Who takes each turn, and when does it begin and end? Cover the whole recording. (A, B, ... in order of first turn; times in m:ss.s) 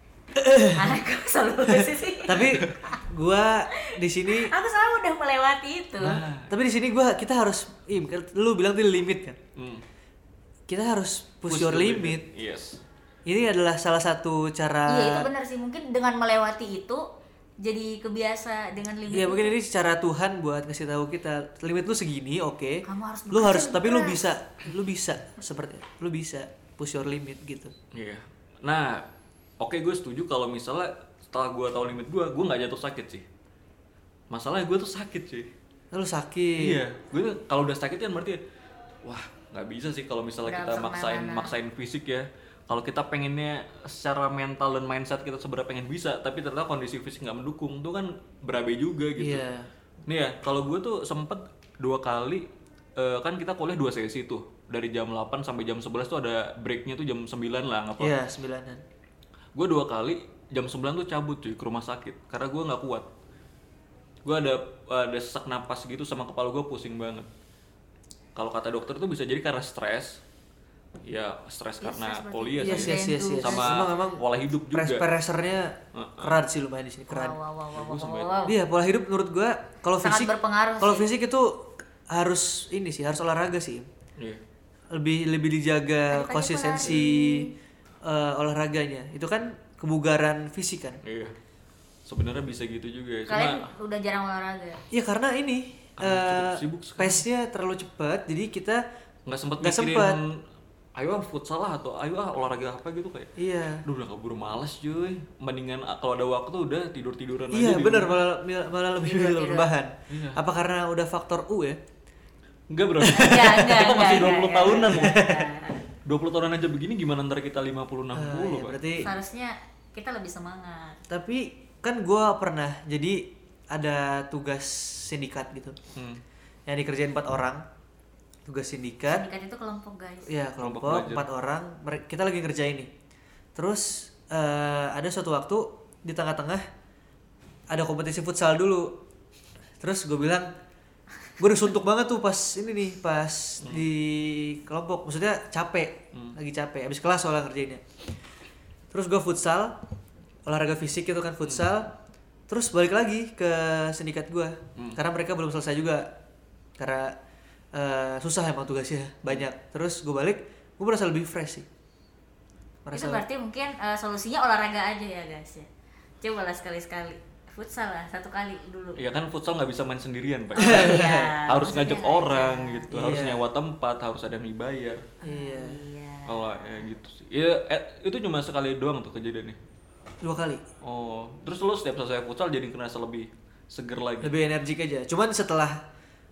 0:00.4-0:01.0 A
0:00.7-0:02.5 B
0:01.7-0:04.5 A
0:02.4-0:02.7 C
0:04.3-0:06.2 B
0:06.0-0:06.5 C
0:06.5-0:09.4 A
0:09.6-0:09.8 C
0:10.7-0:12.2 A
0:11.5-0:12.8 C
0:13.3-0:15.3 A
0:14.9-0:17.0 B
0:17.6-0:19.6 B
0:19.1-0:27.7 A
0:22.9-0:24.3 B
0:27.9-0:29.0 C
0:29.6-0:33.2 C
0:34.3-0:35.5 C
0:35.9-0:36.8 A
0:36.6-0:38.4 C
0:39.0-0:49.4 C
0:40.4-0:41.6 B
0:49.2-0:49.7 A
0:50.1-0:52.5 C
0:53.0-0:58.2 C
0:58.0-0:58.8 A
0:59.6-1:03.1 C
1:04.2-1:07.3 C
1:08.4-1:10.2 C
1:11.0-1:15.1 C
1:11.8-1:13.8 B
1:12.6-1:17.4 A
1:15.9-1:16.4 C
1:17.1-1:18.6 B
1:17.7-1:18.3 C
1:18.4-1:21.5 A
1:20.0-1:21.1 B
1:22.1-1:23.9 A
1:24.9-1:27.5 A
1:26.1-1:27.5 B
1:28.0-1:31.0 A
1:31.0-1:31.3 C
1:32.1-1:33.7 C
1:33.3-1:34.8 B
1:34.9-1:38.8 A
1:36.0-1:37.2 C
1:39.3-1:40.3 C
1:39.6-1:40.2 A
1:41.0-1:43.3 C
1:43.4-1:43.8 A
1:43.8-1:48.2 C
1:47.5-1:51.8 A
1:49.0-1:49.7 B
1:50.1-1:50.4 C
1:52.7-1:55.2 C
1:53.0-1:53.8 A
1:53.2-1:55.8 B
1:54.7-1:55.4 A
1:56.1-1:58.8 C
1:58.1-1:59.1 A
1:59.0-2:01.0 B
2:01.1-2:05.8 A
2:06.0-2:06.2 C
2:06.7-2:07.6 A
2:08.5-2:09.3 A
2:09.1-2:10.3 B
2:10.3-2:12.9 A
2:10.6-2:11.3 C
2:13.6-2:16.6 A
2:17.7-2:19.0 A
2:19.8-2:20.5 A
2:21.4-2:27.8 A
2:28.9-2:29.8 A
2:30.5-2:32.0 A
2:31.4-2:31.7 C
2:32.5-2:36.1 A
2:36.8-2:37.2 A
2:37.7-2:41.7 A
2:42.8-2:43.2 A
2:42.9-2:45.7 B
2:46.2-2:49.0 B
2:49.0-2:55.0 C
2:50.6-2:52.9 B
2:50.6-2:51.3 A
2:52.9-2:53.4 A
2:55.2-2:56.8 B
2:55.2-2:55.8 A
2:56.3-2:59.6 C
3:00.2-3:00.6 A
3:00.8-3:04.3 C
3:04.2-3:05.8 A